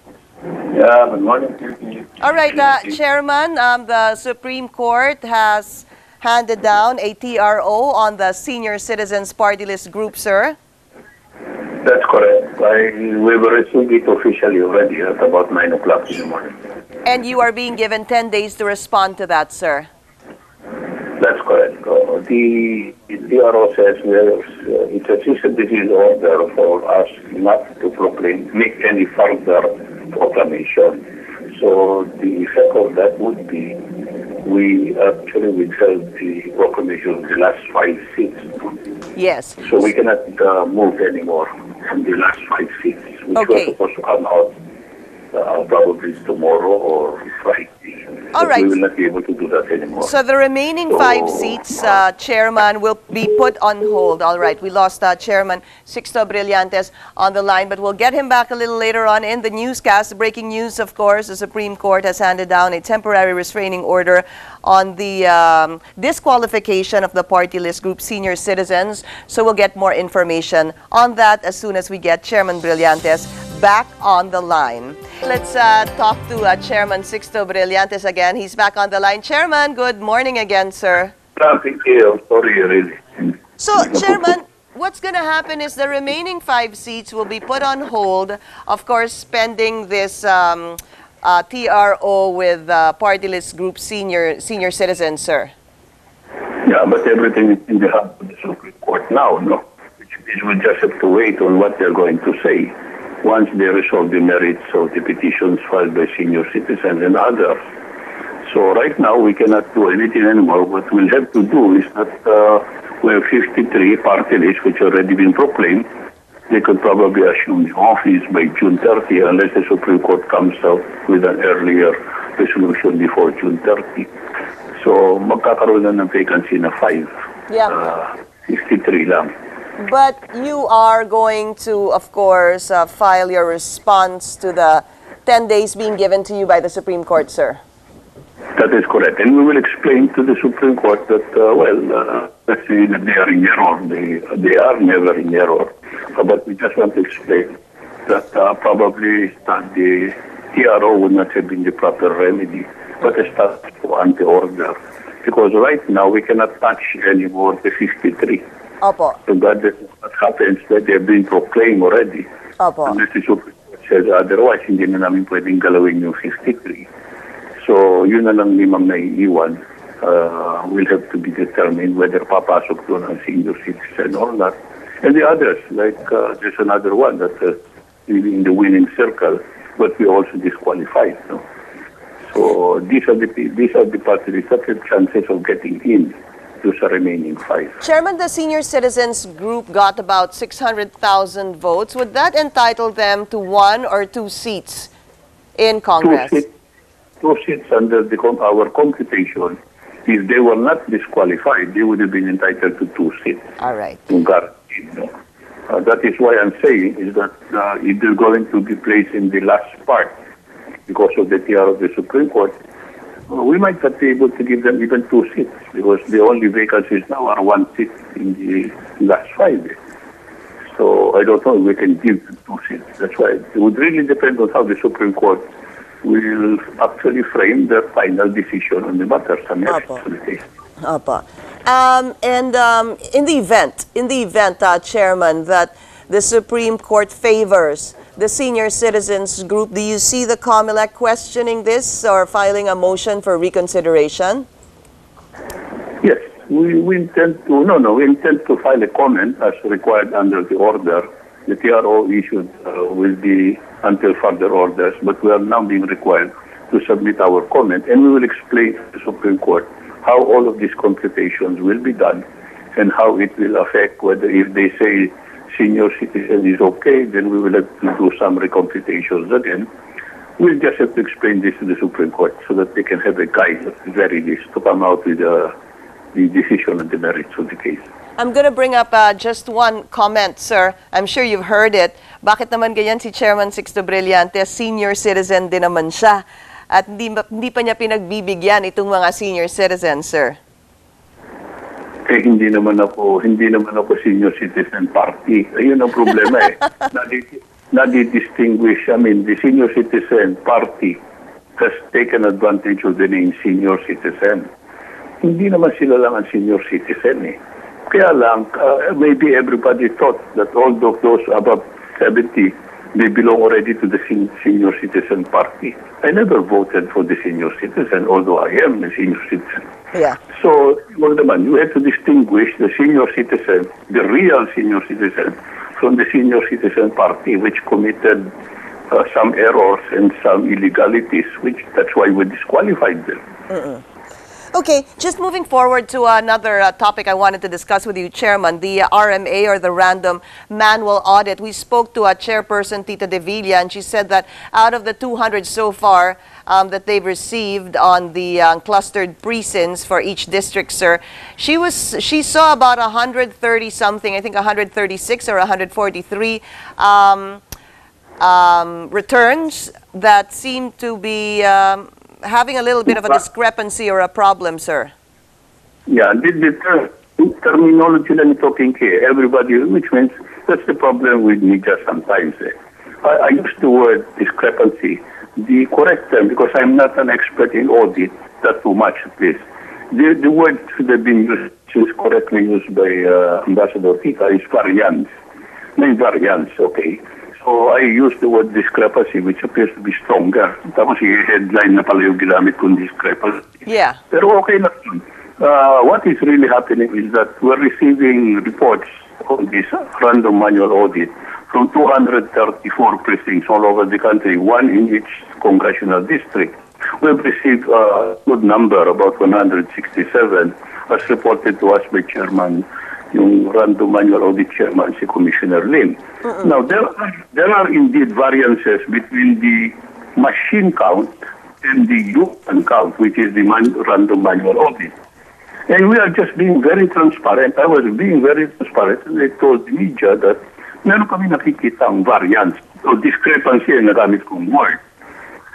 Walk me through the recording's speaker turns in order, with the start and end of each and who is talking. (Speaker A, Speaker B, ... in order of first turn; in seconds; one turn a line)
Speaker A: 0.7-2.9
Speaker B: 2.2-10.6
Speaker A: 11.8-16.6
Speaker B: 17.1-19.9
Speaker A: 21.2-33.8
Speaker A: 34.4-38.7
Speaker B: 39.2-39.7
Speaker A: 39.6-44.5
Speaker B: 43.4-43.7
Speaker A: 45.3-50.1
Speaker B: 48.3-48.7
Speaker B: 50.0-81.1
Speaker A: 50.9-51.6
Speaker A: 81.4-83.4
Speaker B: 83.6-95.5
Speaker A: 83.9-84.1
Speaker A: 96.6-107.6
Speaker A: 108.5-115.9
Speaker A: 116.5-124.1
Speaker A: 124.8-127.1
Speaker B: 127.5-127.8
Speaker A: 127.7-129.3
Speaker B: 129.8-137.6
Speaker A: 138.6-158.4
Speaker B: 158.8-159.2
Speaker A: 159.3-162.3
Speaker B: 162.6-163.0
Speaker A: 162.8-166.9
Speaker A: 167.6-181.4
Speaker A: 182.3-187.8
Speaker B: 187.8-194.9
Speaker B: 195.6-196.4
Speaker A: 196.0-196.5
Speaker A: 197.2-203.4
Speaker B: 203.6-204.1
Speaker A: 204.1-205.1
Speaker A: 205.7-210.1
Speaker A: 210.9-212.6
Speaker A: 213.3-219.8
Speaker A: 220.7-225.4
Speaker A: 226.0-230.4
Speaker B: 230.8-244.5
Speaker A: 246.0-262.2
Speaker A: 262.8-269.7
Speaker A: 270.4-275.5
Speaker A: 276.1-277.8
Speaker B: 278.2-290.4
Speaker A: 292.1-301.0
Speaker A: 301.6-304.5
Speaker A: 305.2-319.6
Speaker B: 319.9-320.2
Speaker A: 320.3-328.3
Speaker A: 328.9-333.2
Speaker B: 333.5-333.8
Speaker B: 334.5-357.4
Speaker B: 358.2-364.9
Speaker A: 365.9-385.1
Speaker A: 385.8-424.9
Speaker B: 393.7-394.0
Speaker A: 425.7-434.8